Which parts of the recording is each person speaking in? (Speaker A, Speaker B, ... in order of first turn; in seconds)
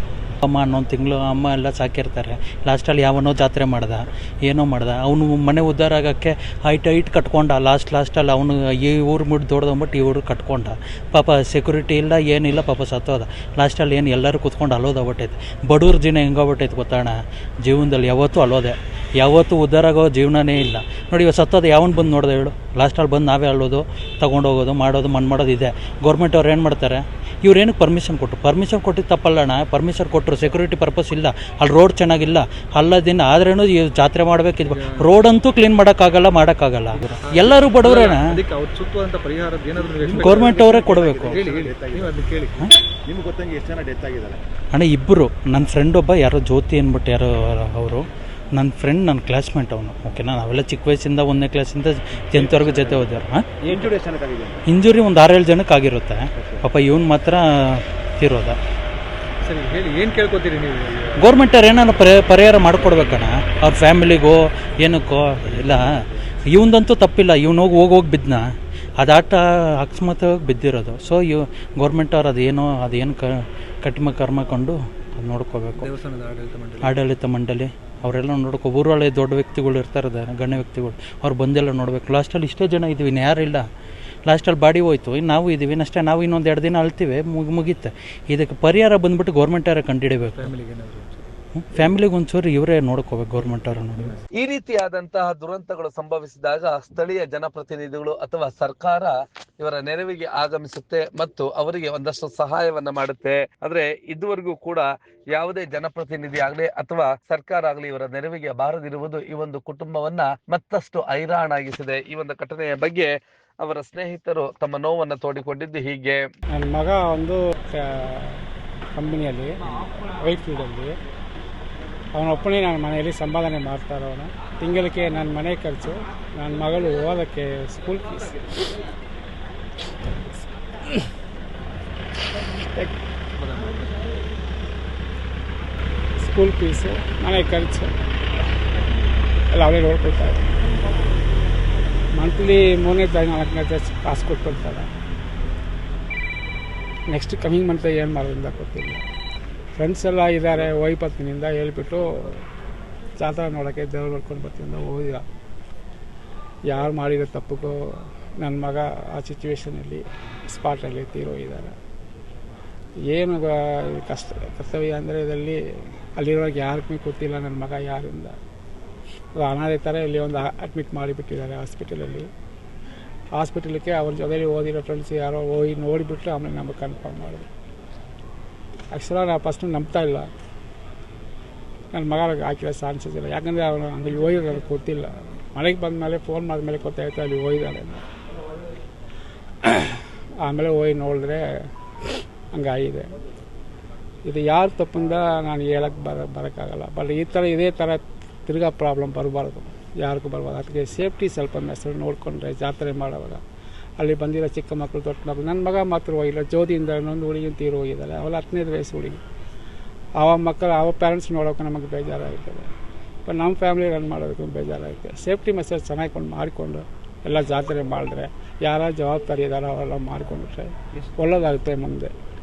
Speaker A: 0.4-38.4, 40.1-41.4, 44.7-48.0, 48.5-53.5, 54.7-58.5, 61.2-65.9, 66.5-68.4, 69.0-73.3, 73.8-75.9, 76.8-83.6, 84.3-90.5, 91.6-94.2
Speaker B: 34.7-35.1, 37.0-40.7, 41.3-42.7, 59.4-61.3, 75.8-77.0, 90.4-91.3, 133.3-133.9
Speaker C: 40.0-42.2, 43.1-44.4, 52.4-53.1, 53.6-54.6, 56.4-56.7
Speaker D: 94.4-116.2
Speaker E: 116.5-120.9, 122.2-128.7, 132.6-132.9, 136.2-137.9, 139.5-140.5, 142.2-144.9, 147.1-149.0, 149.8-152.4, 153.2-155.2, 156.7-161.8, 163.1-165.6, 166.2-168.4, 169.4-172.3, 173.4-177.5, 178.9-180.3, 181.9-188.1, 189.6-191.5, 192.5-193.1, 194.3-203.4, 204.0-209.2, 210.2-212.7, 213.3-222.1